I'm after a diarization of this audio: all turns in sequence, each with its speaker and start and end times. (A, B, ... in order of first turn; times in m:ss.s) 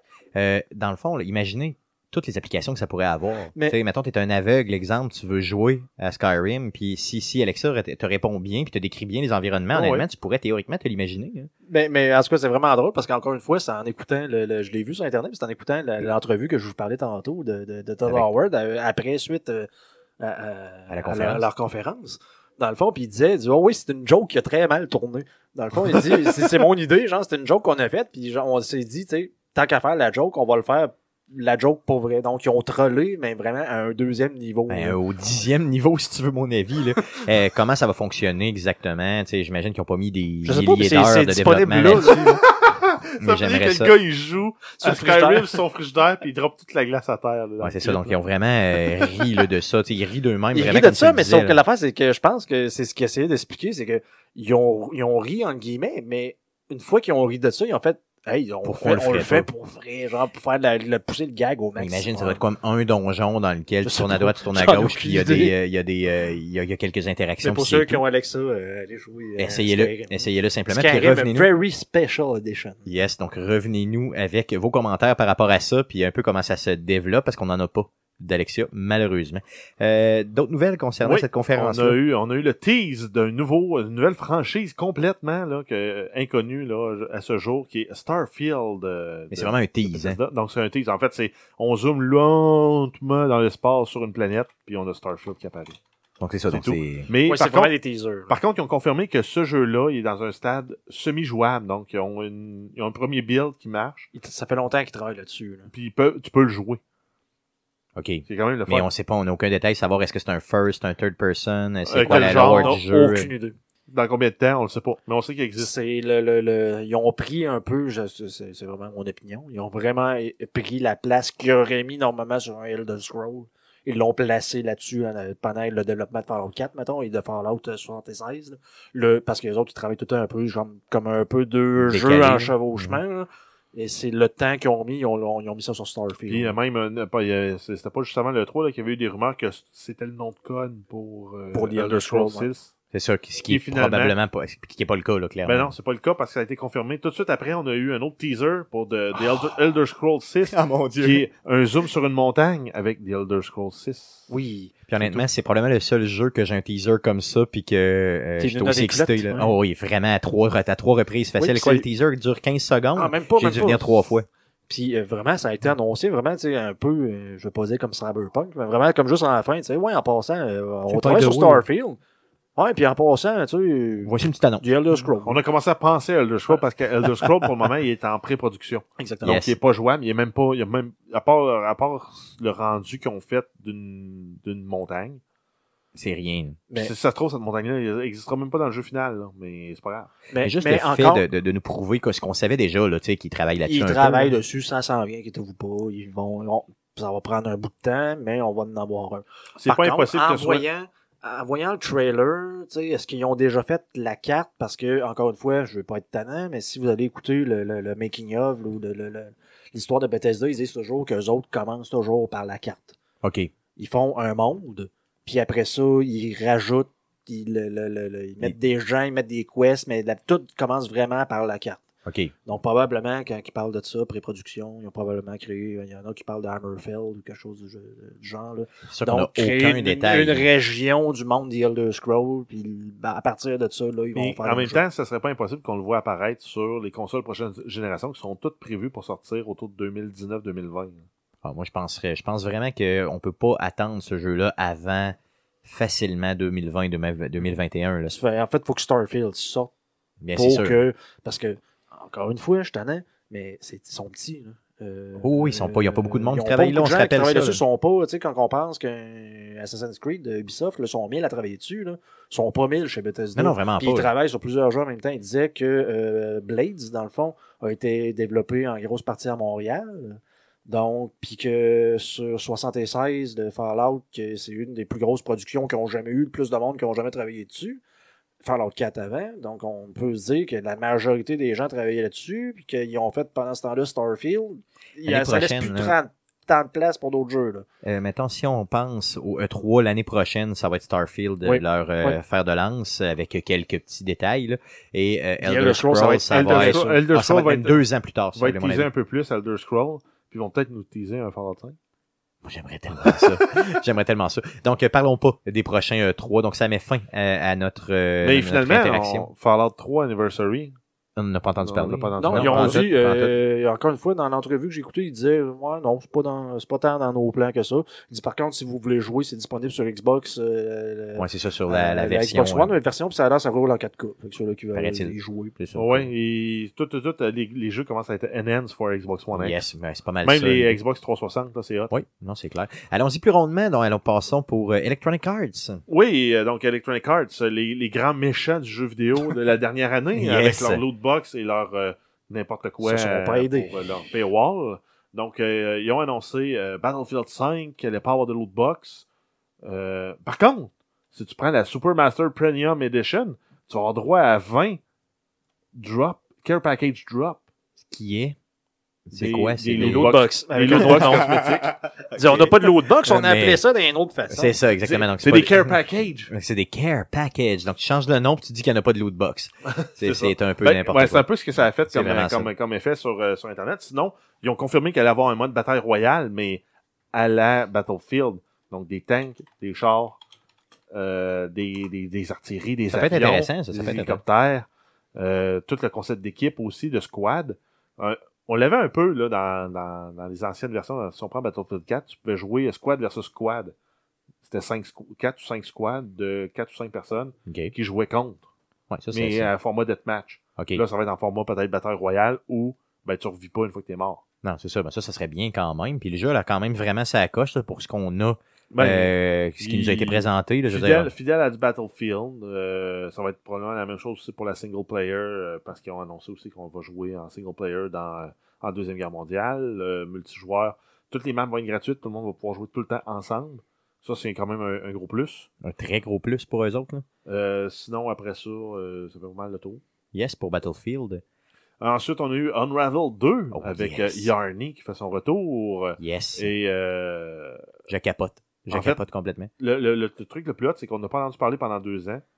0:00.3-0:11.5 A
0:09.7-0:10.0 B
0:11.7-0:19.7 C
0:20.2-0:35.0 C
0:20.9-0:21.4 A
0:34.7-0:42.2 A
0:40.4-0:42.4 C
0:42.4-0:48.2 B
0:43.2-0:43.9 A
0:44.8-0:45.6 C
0:47.6-0:51.6 A
0:50.5-1:02.4 C
0:58.6-0:59.5 A
1:01.8-1:08.0 A
1:03.8-1:05.5 C
1:07.4-1:12.9 C
1:09.4-1:11.5 A
1:12.8-1:22.0 A
1:21.0-1:35.8 B
1:29.3-1:30.2 A
1:36.2-1:37.1 A
1:36.5-1:37.7 B
1:37.2-1:38.4 C
1:38.3-1:44.1 B
1:44.1-1:45.7 C
1:45.7-1:46.8 B
1:48.0-1:53.3 A
1:48.3-1:48.9 B
1:51.9-1:52.8 B
1:52.0-1:53.6 C
1:53.9-1:55.7 B
1:55.6-2:16.5 C
2:11.8-2:13.0 A
2:16.3-2:22.7 B
2:21.5-2:22.5 C
2:22.9-2:25.7 A
2:23.5-2:24.2 B
2:25.4-2:34.3 B
2:30.5-2:31.2 A
2:34.3-2:34.8 C
2:34.9-2:44.2 A
2:38.4-2:39.5 C
2:41.4-2:41.8 C
2:43.0-2:44.0 C
2:44.7-2:52.0 C
2:50.9-2:51.6 A
2:52.6-2:55.4 C
2:54.0-2:54.6 A
2:55.2-3:05.2 B
2:59.0-2:59.3 C
2:59.2-2:59.6 A
3:05.9-3:06.6 A
3:06.8-3:10.1 B
3:10.3-3:11.2 C
3:10.4-3:14.4 A
3:13.6-3:33.0 C
3:19.6-3:20.6 B
3:33.2-3:33.5 A
3:33.8-3:41.8 C
3:42.0-3:42.3 A
3:42.4-3:54.8 C
3:48.9-3:50.5 A
3:54.1-4:01.0 B
4:01.4-4:08.1 A
4:08.1-4:09.7 C
4:10.2-4:10.8 A
4:10.3-4:37.8 C
4:15.2-4:17.6 A
4:23.4-4:24.1 A
4:38.4-4:47.6 C
4:45.0-4:45.9 A
4:47.8-4:58.9 A
4:51.4-4:52.2 C
4:55.4-4:57.0 C
4:56.3-4:57.8 B
4:58.4-5:01.8 B
5:02.4-5:09.3 A
5:03.1-5:03.4 B
5:08.2-5:10.7 B
5:11.2-5:13.3 A
5:11.6-5:12.9 B
5:12.2-5:25.6 C
5:21.2-5:22.7 A
5:24.7-5:26.1 A
5:25.7-5:29.6 B
5:29.3-5:30.8 A
5:30.2-5:31.9 B
5:31.9-5:35.8 A
5:35.9-5:49.0 B
5:40.2-5:40.8 A
5:42.8-5:43.8 C
5:49.6-5:54.8 B
5:55.7-5:57.4 B
5:57.8-5:58.4 A
5:59.1-6:00.1 A
5:59.1-6:01.7 B
5:59.8-6:04.6 C
6:00.7-6:01.4 A
6:02.2-6:02.5 A
6:03.0-6:03.6 A
6:04.3-6:05.8 A
6:04.8-6:06.3 B
6:06.3-6:12.5 A
6:09.7-6:16.6 B
6:17.1-6:20.2 B
6:20.9-6:33.7 B
6:22.9-6:24.2 A
6:34.4-6:38.5 B
6:37.5-6:37.7 A
6:38.9-6:39.5 A
6:39.1-6:44.2 B
6:40.6-6:40.8 A
6:44.4-6:51.1 A
6:48.7-7:05.5 B
7:05.6-7:07.0 A
7:07.2-7:09.8 B
7:10.1-7:11.2 A
7:11.8-7:17.6 B
7:13.5-7:14.3 A
7:16.0-7:16.5 A
7:17.9-7:19.5 A
7:18.7-7:19.0 B
7:19.6-7:22.2 B